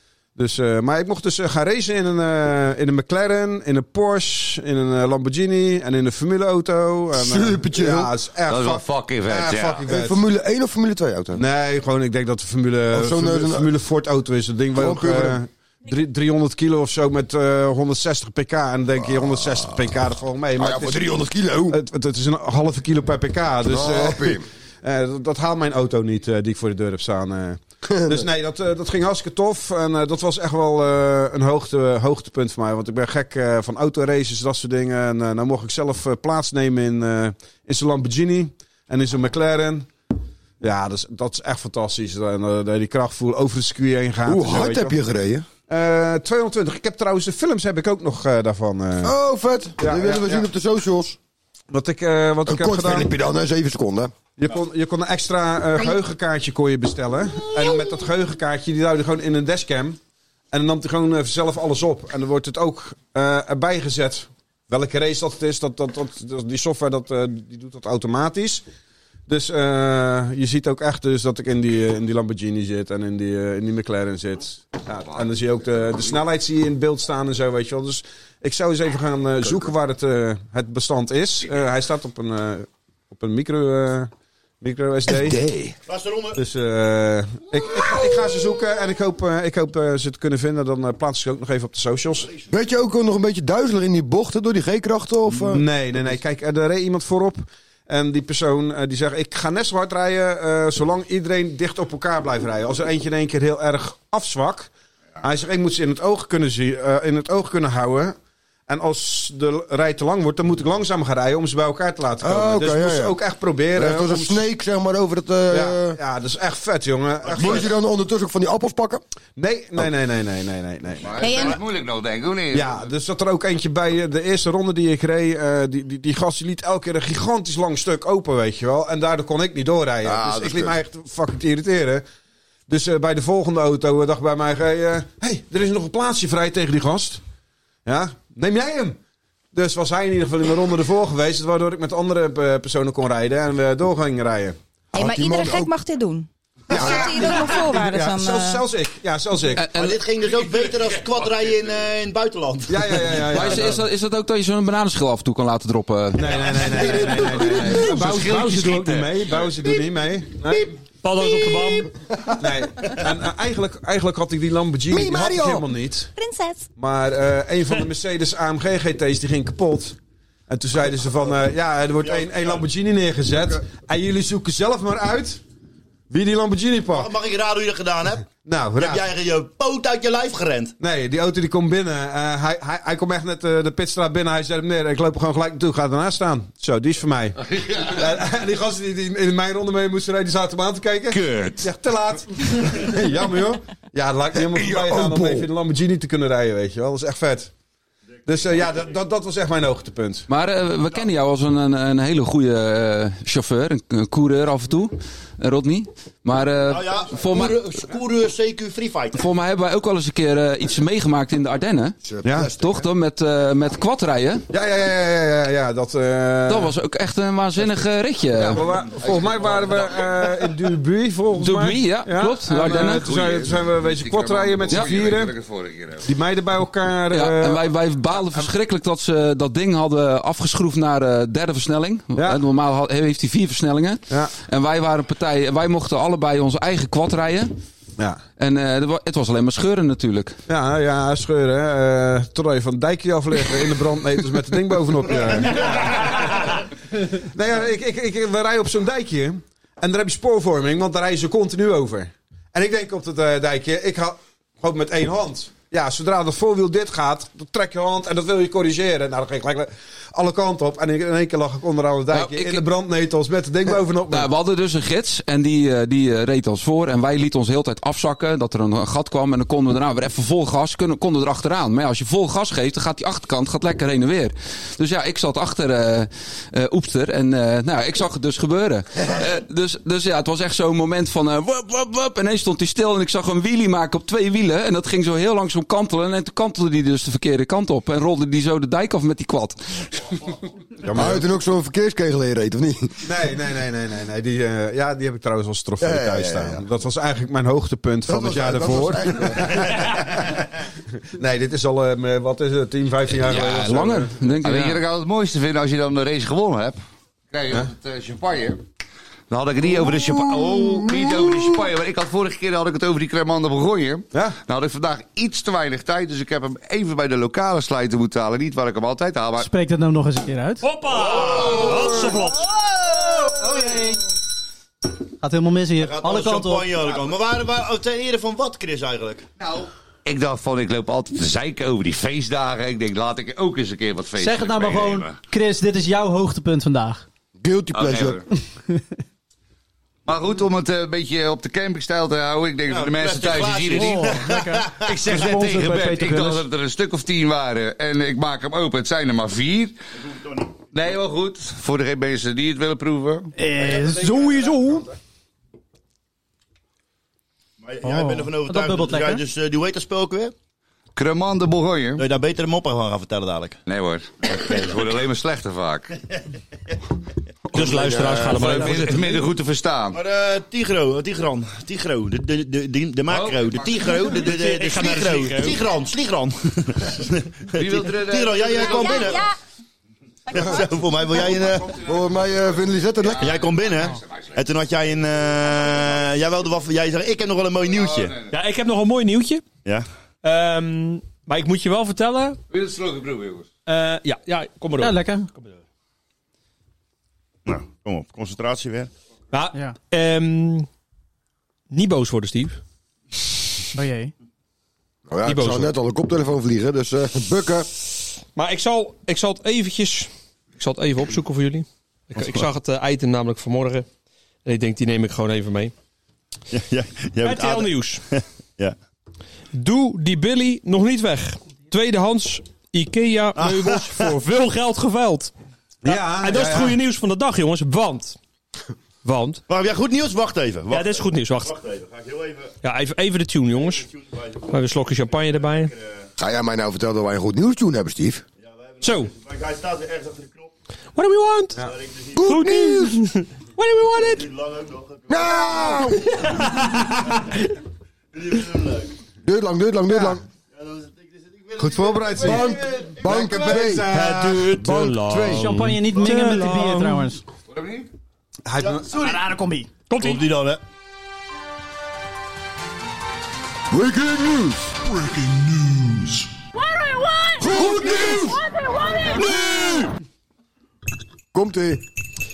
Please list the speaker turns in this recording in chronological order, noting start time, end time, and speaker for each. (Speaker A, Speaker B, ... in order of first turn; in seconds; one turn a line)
Speaker A: 0.3-10.2
Speaker B: 7.1-8.1
Speaker C: 8.5-9.8
Speaker B: 9.8-11.4
Speaker A: 11.3-21.1
Speaker B: 12.9-13.7
Speaker B: 14.7-15.4
Speaker B: 19.2-19.7
Speaker B: 20.6-21.8
Speaker A: 21.7-39.9
Speaker B: 23.6-24.5
Speaker B: 27.8-28.3
Speaker A: 40.6-45.0
Speaker B: 44.2-45.5
Speaker A: 45.7-49.1
Speaker B: 49.0-51.2
Speaker A: 49.8-50.5
Speaker A: 51.7-53.1
Speaker B: 52.5-54.1
Speaker A: 54.4-60.0
Speaker A: 60.5-68.6
Speaker A: 69.3-84.1
Speaker A: 84.6-85.4
Speaker B: 85.1-85.7
Speaker D: 85.9-86.4
Speaker A: 86.3-92.3
Speaker B: 87.8-88.4
Speaker B: 92.5-95.6
Speaker A: 95.4-104.7
Speaker A: 105.2-108.1
Speaker A: 108.7-114.4
Speaker B: 112.2-113.2
Speaker B: 113.7-116.0
Speaker A: 115.5-117.7
Speaker B: 117.3-119.0
Speaker A: 119.3-121.2
Speaker C: 121.0-122.8
Speaker E: 121.2-121.6
Speaker A: 122.5-132.0
Speaker B: 130.0-130.8
Speaker A: 132.7-137.2
Speaker A: 137.8-139.0
Speaker A: 139.5-144.6
Speaker E: 144.9-148.6
Speaker B: 144.9-145.7
Speaker A: 146.7-149.7
Speaker B: 146.8-147.1
Speaker F: 149.6-150.0
Speaker D: 149.7-153.2
Speaker A: 152.7-153.8
Speaker F: 153.3-158.0
Speaker A: 156.1-160.7
Speaker B: 156.7-157.7
Speaker C: 157.6-159.3
Speaker G: 161.0-161.9
Speaker A: 162.4-166.1
Speaker B: 164.9-165.7
Speaker E: 166.2-166.6
Speaker A: 166.8-170.0
Speaker A: 170.5-175.4
Speaker D: 172.0-172.6
Speaker A: 176.1-177.1
Speaker D: 176.9-180.7
Speaker A: 178.4-179.1
Speaker A: 180.8-197.5
Speaker C: 191.1-191.7
Speaker B: 194.3-195.5
Speaker A: 198.2-200.3
Speaker F: 200.3-207.7
Speaker D: 206.7-209.2
Speaker F: 209.1-214.4
Speaker B: 212.0-212.8
Speaker A: 212.2-212.5
Speaker A: 214.5-216.7
Speaker F: 216.5-218.7
Speaker A: 218.4-225.3
Speaker C: 219.0-220.1
Speaker F: 221.3-223.1
Speaker C: 222.9-226.1
Speaker A: 226.0-227.6
Speaker F: 227.1-237.5
Speaker A: 232.2-232.4
Speaker F: 238.4-240.4
Speaker A: 240.5-264.3
Speaker F: 262.1-262.6
Speaker F: 264.1-290.3
Speaker A: 290.8-291.2
Speaker B: 290.9-292.9
Speaker A: 293.0-300.4
Speaker B: 295.8-296.6
Speaker B: 298.1-299.8
Speaker A: 301.1-304.1
Speaker F: 303.2-304.8
Speaker C: 304.4-306.8
Speaker C: 307.3-308.6
Speaker C: 309.3-319.5
Speaker H: 319.4-320.6
Speaker G: 320.6-322.5
Speaker D: 321.0-321.6
Speaker C: 321.3-321.7
Speaker H: 323.2-324.0
Speaker H: 325.2-326.8
Speaker D: 325.8-329.2
Speaker C: 329.4-335.1
Speaker H: 334.2-337.0
Speaker B: 337.4-338.2
Speaker C: 337.7-338.2
Speaker C: 340.1-344.1
Speaker D: 342.7-344.9
Speaker H: 343.7-346.4
Speaker C: 344.8-349.8
Speaker D: 350.0-350.5
Speaker C: 350.7-353.3
Speaker H: 353.4-354.8
Speaker A: 353.5-354.9
Speaker D: 357.6-360.3
Speaker H: 357.8-359.2
Speaker C: 360.9-362.0
Speaker D: 362.0-363.6
Speaker C: 363.6-365.9
Speaker G: 367.5-369.2
Speaker C: 367.5-370.0
Speaker B: 367.6-368.3
Speaker D: 369.9-379.2
Speaker C: 373.1-373.8
Speaker G: 374.1-375.6
Speaker C: 377.5-379.2
Speaker E: 378.6-379.3
Speaker D: 380.3-381.7
Speaker E: 380.3-380.6
Speaker B: 381.8-383.4
Speaker C: 383.1-384.4
Speaker D: 383.2-388.2
Speaker C: 387.7-388.3
Speaker G: 388.3-389.4
Speaker G: 390.2-392.4
Speaker C: 392.5-393.5
Speaker G: 393.6-395.6
Speaker H: 394.8-395.3
Speaker D: 397.4-398.9
Speaker G: 399.3-400.7
Speaker G: 401.7-402.6
Speaker H: 403.7-404.1
Speaker B: 405.1-407.7
Speaker G: 405.2-405.7
Speaker G: 408.4-413.9
Speaker G: 414.4-415.7
Speaker D: 416.5-418.8
Speaker G: 417.2-418.0
Speaker G: 419.5-425.3
Speaker D: 423.4-424.1
Speaker A: 425.8-426.8
Speaker G: 425.9-428.2
Speaker G: 429.0-429.4
Speaker D: 429.5-432.5
Speaker G: 430.7-431.5
Speaker G: 432.6-433.9
Speaker D: 433.5-436.1
Speaker G: 434.5-435.7
Speaker B: 436.2-438.2
Speaker D: 438.4-440.5
Speaker G: 438.8-439.1
Speaker G: 440.9-441.6
Speaker D: 441.6-442.2
Speaker B: 442.1-443.0
Speaker G: 442.2-444.3
Speaker D: 444.0-446.0
Speaker B: 445.1-446.3
Speaker G: 446.6-446.9
Speaker D: 448.1-448.9
Speaker B: 449.2-450.2
Speaker D: 450.5-452.5
Speaker A: 451.6-454.5
Speaker B: 452.2-455.5
Speaker G: 453.9-457.1
Speaker H: 455.3-457.2
Speaker C: 457.5-457.9
Speaker A: 458.4-459.0
Speaker D: 458.6-459.2
Speaker H: 459.0-459.7
Speaker G: 459.9-460.2
Speaker D: 459.9-460.6
Speaker B: 463.7-466.2
Speaker B: 467.4-468.4
Speaker B: 469.1-469.8
Speaker B: 471.3-471.8